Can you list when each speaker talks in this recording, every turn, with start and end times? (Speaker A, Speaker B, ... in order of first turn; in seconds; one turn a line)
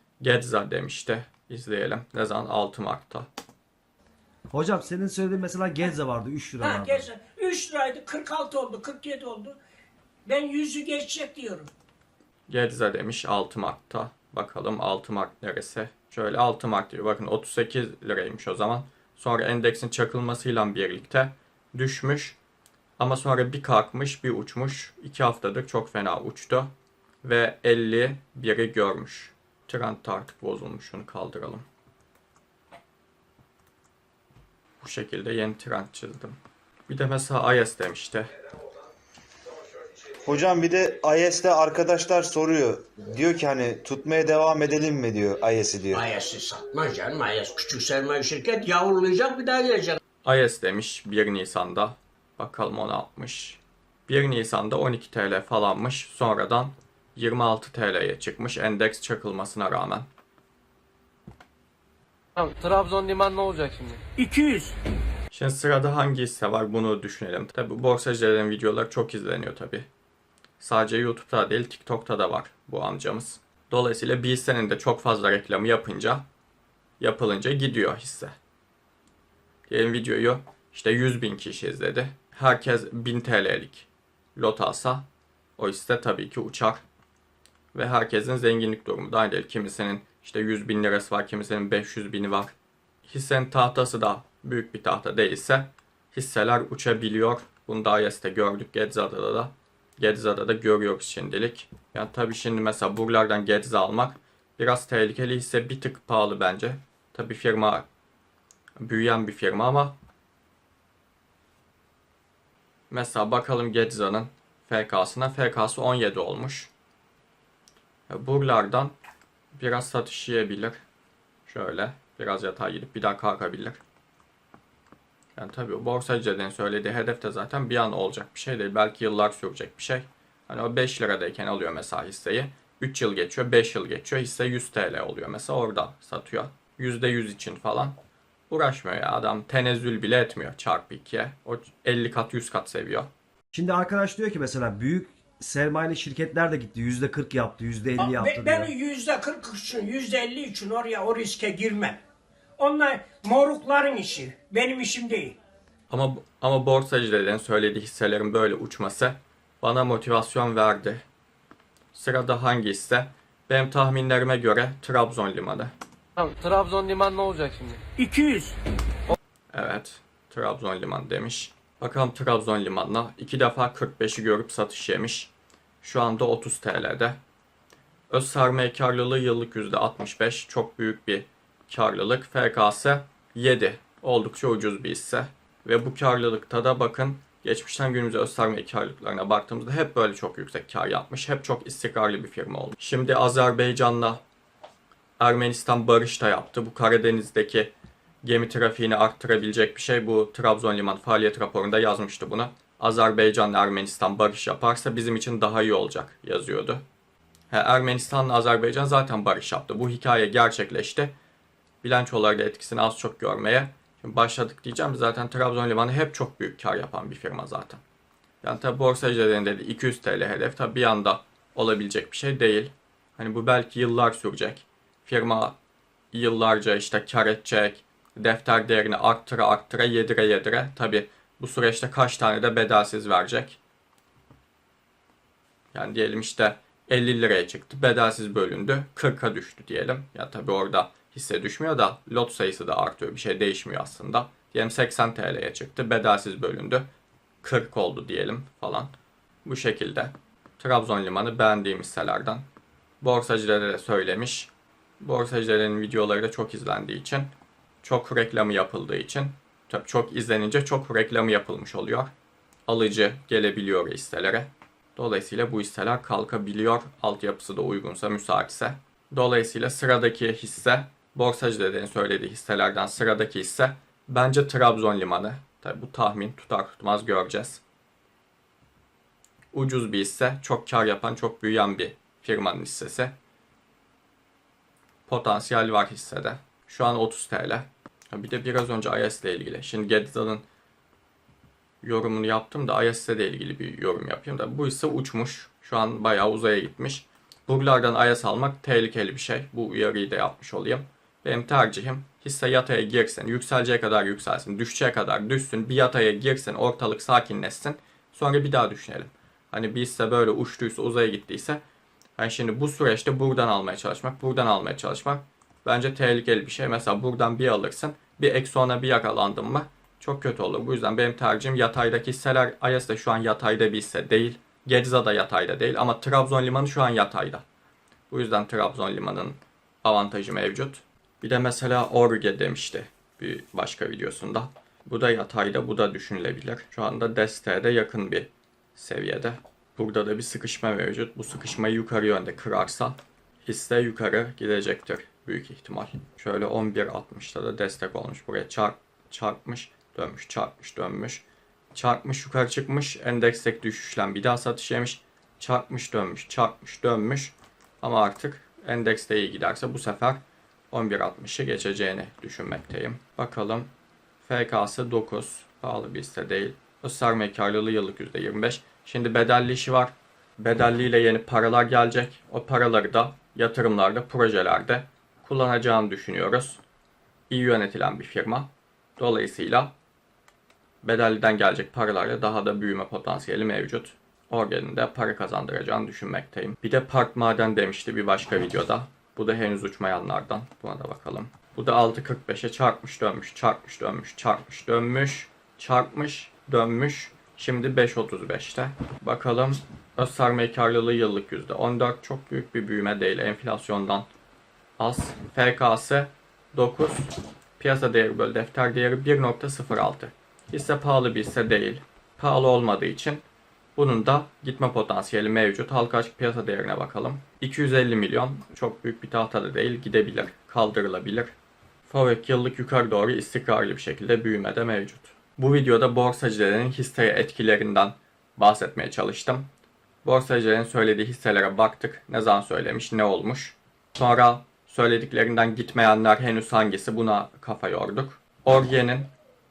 Speaker A: 0.2-3.3
Speaker B: 4.5-7.1
Speaker C: 6.6-9.6
Speaker C: 10.3-11.7
Speaker A: 12.5-22.4
Speaker A: 23.0-26.7
Speaker A: 27.2-31.6
Speaker A: 34.8-36.4
Speaker A: 36.9-38.3
Speaker D: 40.2-46.0
Speaker E: 45.9-50.0
Speaker A: 50.2-60.1
Speaker C: 62.4-64.8
Speaker F: 63.7-64.0
Speaker A: 65.3-69.9
Speaker A: 70.6-76.2
Speaker A: 77.0-78.3
Speaker A: 79.7-85.0
Speaker A: 85.6-86.8
Speaker A: 87.7-92.5
Speaker A: 93.1-107.9
Speaker A: 108.8-110.0
Speaker A: 112.9-116.7
Speaker A: 118.1-119.0
Speaker A: 119.5-120.8
Speaker A: 121.5-123.8
Speaker A: 125.4-138.0
Speaker A: 138.5-143.1
Speaker B: 143.5-148.7
Speaker C: 148.0-152.0
Speaker C: 152.6-155.4
Speaker A: 155.9-161.0
Speaker A: 161.9-165.7
Speaker F: 166.2-167.9
Speaker C: 166.3-168.6
Speaker A: 169.5-177.2
Speaker A: 178.1-194.2
Speaker A: 195.2-197.7
Speaker A: 198.2-206.8
Speaker A: 207.5-211.1
Speaker A: 211.8-217.8
Speaker A: 218.4-225.6
Speaker A: 226.1-233.6
Speaker A: 235.7-246.9
Speaker A: 247.4-248.9
Speaker A: 249.4-252.4
Speaker A: 253.0-257.3
Speaker A: 257.8-262.1
Speaker A: 262.7-277.6
Speaker A: 279.5-283.1
Speaker A: 285.1-290.4
Speaker A: 291.8-311.6
Speaker A: 312.2-327.4
Speaker A: 328.1-363.7
Speaker A: 364.2-376.6
Speaker A: 377.3-379.7
Speaker A: 380.8-404.1
Speaker A: 404.8-413.2
Speaker A: 413.8-421.3
Speaker A: 421.9-429.5
Speaker A: 430.0-439.1